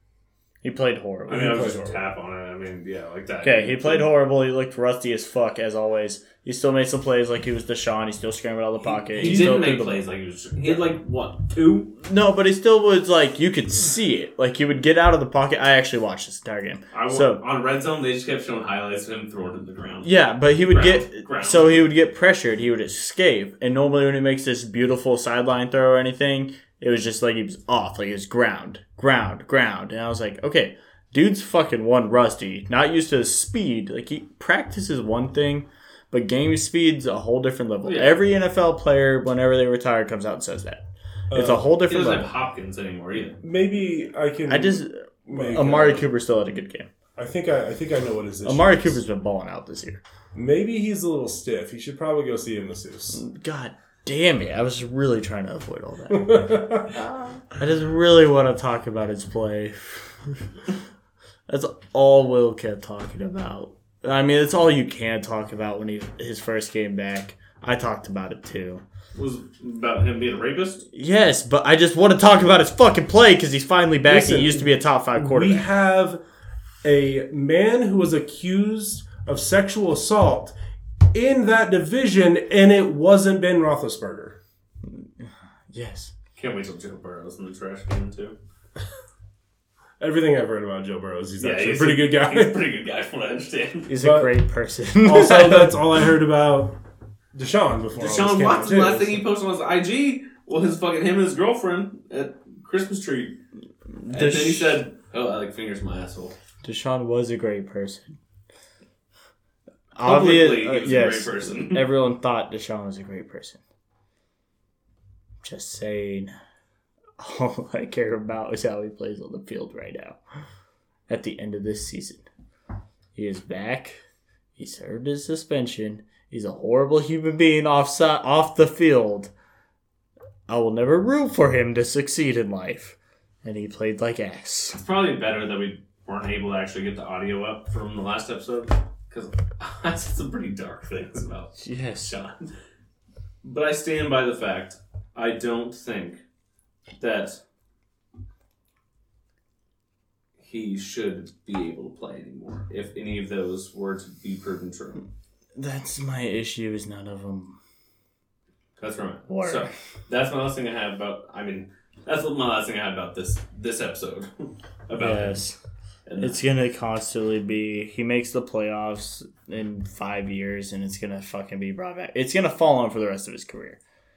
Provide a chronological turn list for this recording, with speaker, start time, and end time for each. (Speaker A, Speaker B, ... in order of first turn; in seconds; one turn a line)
Speaker A: 0.6-1.7
Speaker B: 1.3-2.0
Speaker C: 1.3-4.1
Speaker A: 3.4-10.0
Speaker C: 8.8-11.9
Speaker B: 9.2-9.6
Speaker A: 12.0-17.4
Speaker C: 16.9-20.1
Speaker A: 20.0-42.3
Speaker C: 20.7-21.9
Speaker C: 37.8-38.2
Speaker B: 41.3-41.7
Speaker C: 41.9-43.4
Speaker B: 43.4-46.1
Speaker A: 44.5-46.9
Speaker B: 47.2-49.0
Speaker A: 48.5-50.0
Speaker B: 50.3-53.2
Speaker A: 53.1-56.9
Speaker B: 56.1-56.9
Speaker A: 57.4-60.4
Speaker A: 61.5-68.8
Speaker C: 69.2-70.9
Speaker A: 70.9-75.7
Speaker B: 74.0-76.2
Speaker B: 76.8-80.5
Speaker B: 81.1-84.4
Speaker A: 84.9-86.1
Speaker C: 86.4-88.4
Speaker B: 90.0-92.6
Speaker C: 91.4-93.9
Speaker A: 93.9-95.9
Speaker B: 94.0-94.4
Speaker B: 95.0-96.8
Speaker B: 97.3-99.2
Speaker C: 98.0-103.4
Speaker A: 104.0-104.8
Speaker C: 104.1-106.3
Speaker A: 106.6-108.2
Speaker A: 110.0-113.6
Speaker C: 110.0-111.9
Speaker A: 115.4-116.3
Speaker A: 117.2-120.2
Speaker A: 121.1-122.2
Speaker A: 123.2-124.0
Speaker A: 124.6-129.3
Speaker A: 130.5-134.8
Speaker C: 134.7-142.5
Speaker A: 141.6-142.1
Speaker C: 143.4-146.2
Speaker C: 147.0-147.4
Speaker C: 150.4-155.0
Speaker A: 155.6-157.6
Speaker C: 158.8-164.3
Speaker A: 159.3-159.7
Speaker C: 164.9-165.4
Speaker A: 164.9-165.6
Speaker C: 166.1-166.4
Speaker A: 166.2-173.8